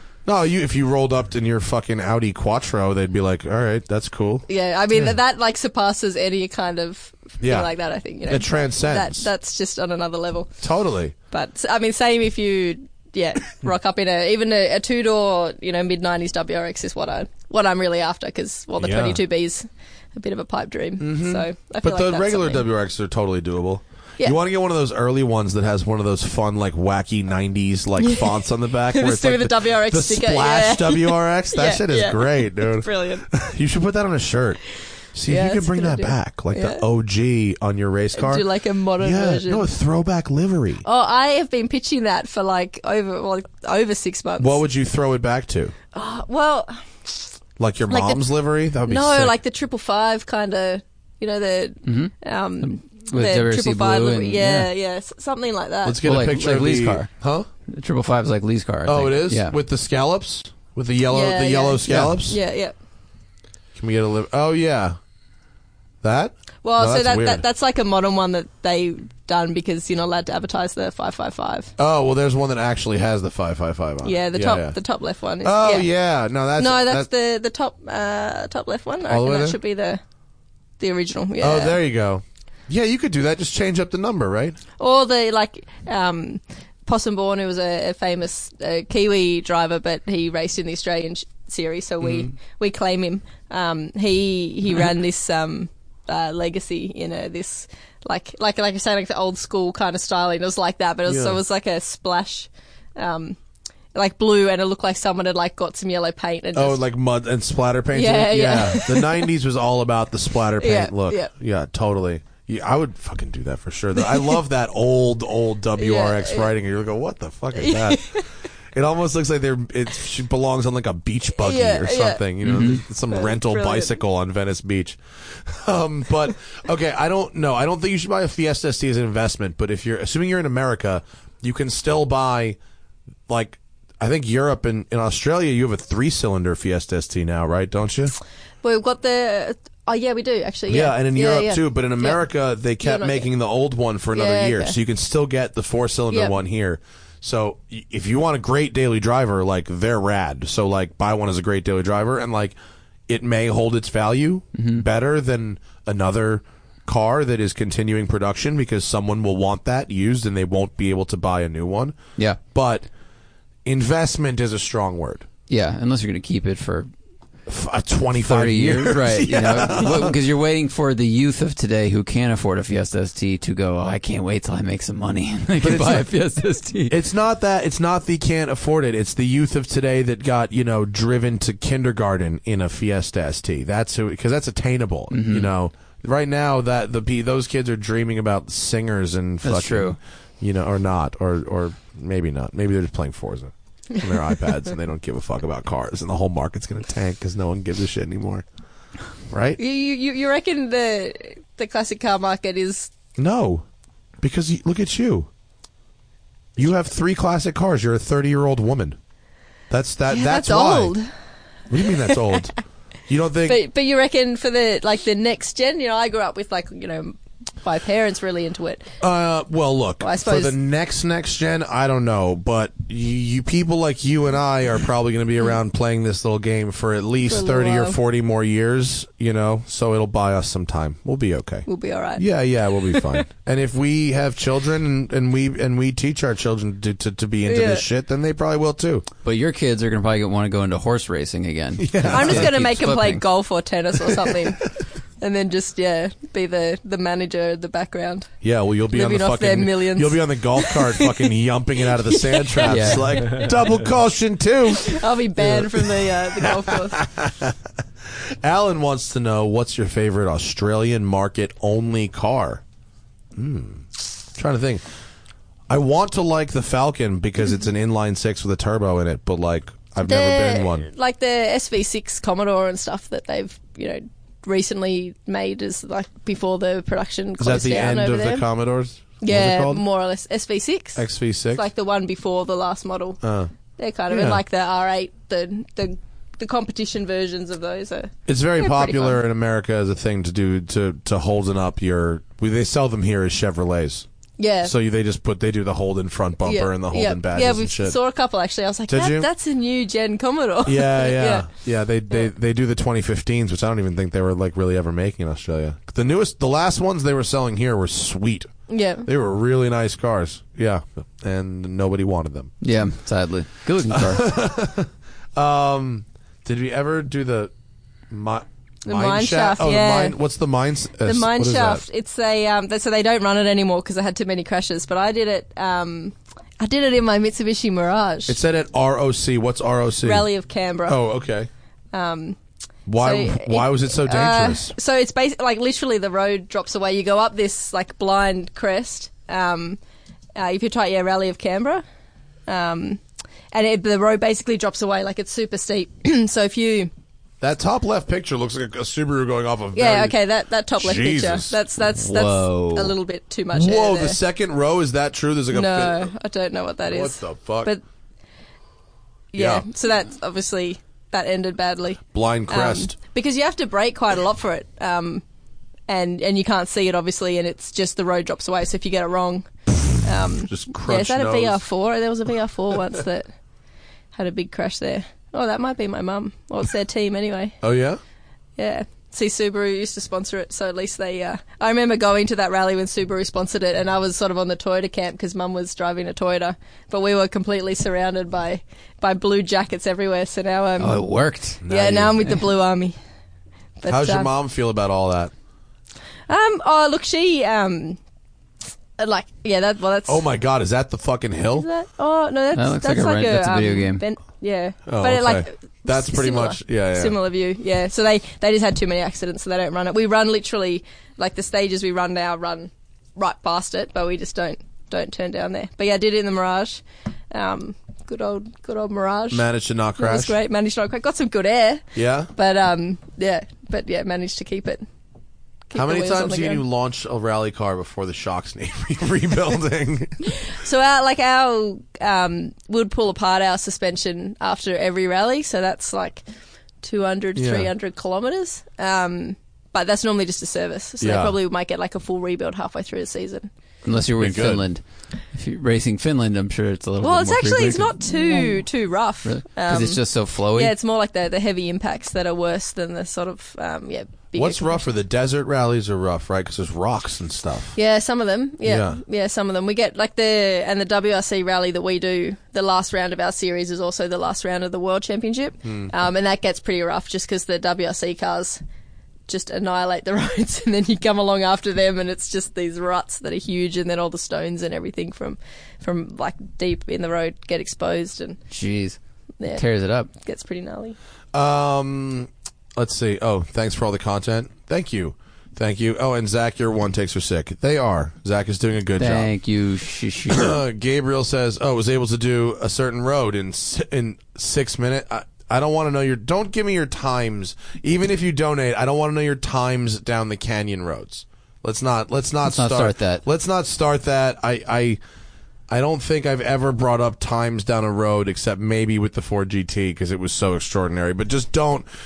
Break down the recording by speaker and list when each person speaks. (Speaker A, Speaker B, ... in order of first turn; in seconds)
Speaker A: 0.2-5.1, 7.4-7.7, 8.3-9.3, 10.6-11.1, 18.8-19.2, 21.0-34.6, 35.1-38.4, 39.0-40.8, 44.4-45.7, 47.6-49.3, 55.8-57.5, 58.8-62.4, 63.8-65.0, 66.0-67.4, 71.8-74.8, 75.4-77.1, 79.1-79.6, 81.4-84.6, 92.0-92.3, 101.0-101.4, 106.5-118.2, 118.7-132.6, 133.3-138.2, 140.7-152.5, 153.1-162.0, 162.5-162.9, 163.6-165.3, 167.5-170.2, 175.6-176.1, 176.9-198.4, 199.3-199.6, 203.2-203.6, 204.2-205.3, 206.6-209.0, 209.7-210.9, 211.7-212.6, 213.1-213.6, 219.0-231.7, 232.2-239.0, 241.8-242.6, 248.4-257.6, 258.1-262.6, 263.4-264.8, 265.7-270.9, 277.4-279.8, 280.9-281.6, 283.2-283.5, 284.1-284.4, 288.3-294.1, 294.6-297.9, 298.9-299.3, 300.6-308.5, 309.0-312.5, 313.9-317.5, 318.1-321.8, 328.3-330.3, 330.9-331.5, 332.9-334.7, 347.4-350.2, 350.8-351.6, 353.5-356.1, 356.9-357.7, 359.3-359.6, 362.1-362.9, 370.4-371.6, 377.6-378.0, 391.6-392.2, 393.9-395.3, 400.1-401.7, 404.9-407.1, 419.3-420.4, 421.9-422.3, 425.7-430.3, 437.4-437.7, 441.0-441.3, 444.2-444.6, 454.3-457.8, 458.6-459.0, 481.3-489.3, 490.3-505.0, 505.7-511.9
Speaker B: 4.5-10.5, 11.3-22.6, 28.0-33.3, 35.3-36.8, 38.1-39.7, 40.8-44.6, 45.9-47.3, 47.9-48.2, 48.9-56.0, 61.1-62.7, 66.6-71.7, 74.0-75.9, 76.6-80.0, 80.8-81.8, 84.8-103.4, 103.9-106.8, 107.9-109.3, 110.6-111.3, 114.0-114.4, 115.8-116.5, 117.5-118.2, 121.4-122.2, 123.1-124.0, 138.6-142.2, 142.8-143.3, 144.1-144.8, 199.6-202.9, 210.1-211.1, 211.8-212.4, 213.5-218.9, 220.0-220.5, 227.3-228.0, 231.7-232.2, 232.8-233.2, 237.4-237.8, 242.1-244.6, 245.2-248.3, 248.9-251.3, 251.9-253.5, 254.7-257.0, 270.0-278.4, 279.2-281.0, 281.5-283.2, 283.8-289.2, 294.4-294.7, 296.4-301.5, 308.7-309.1, 318.9-320.1, 321.0-328.4, 330.0-331.0, 331.9-332.4, 333.0-339.8, 340.3-341.8, 342.5-343.0, 343.5-346.9, 349.7-354.2, 355.5-357.8, 359.3-365.2, 365.9-369.5, 370.0-373.3, 374.1-377.6, 378.6-391.0, 391.7-392.9, 393.8-394.3, 396.3-398.0, 399.0-400.3, 401.6-419.4, 420.0-424.8, 425.7-426.6, 430.2-436.2, 436.8-443.5, 447.0-454.8, 457.8-468.6, 469.3-478.4, 480.1-481.0
Speaker C: 51.8-54.7, 56.0-57.1, 57.7-59.6, 61.9-62.2, 122.4-122.8, 154.5-154.8, 165.5-166.9, 168.2-176.9, 185.1-185.5, 189.4-190.0, 239.2-243.2, 252.6-253.2, 312.6-314.3, 351.9-352.9, 390.8-391.6, 402.5-404.0, 443.8-448.6, 449.2-450.7, 478.5-479.0, 479.5-480.1, 489.0-490.6, 502.4-503.2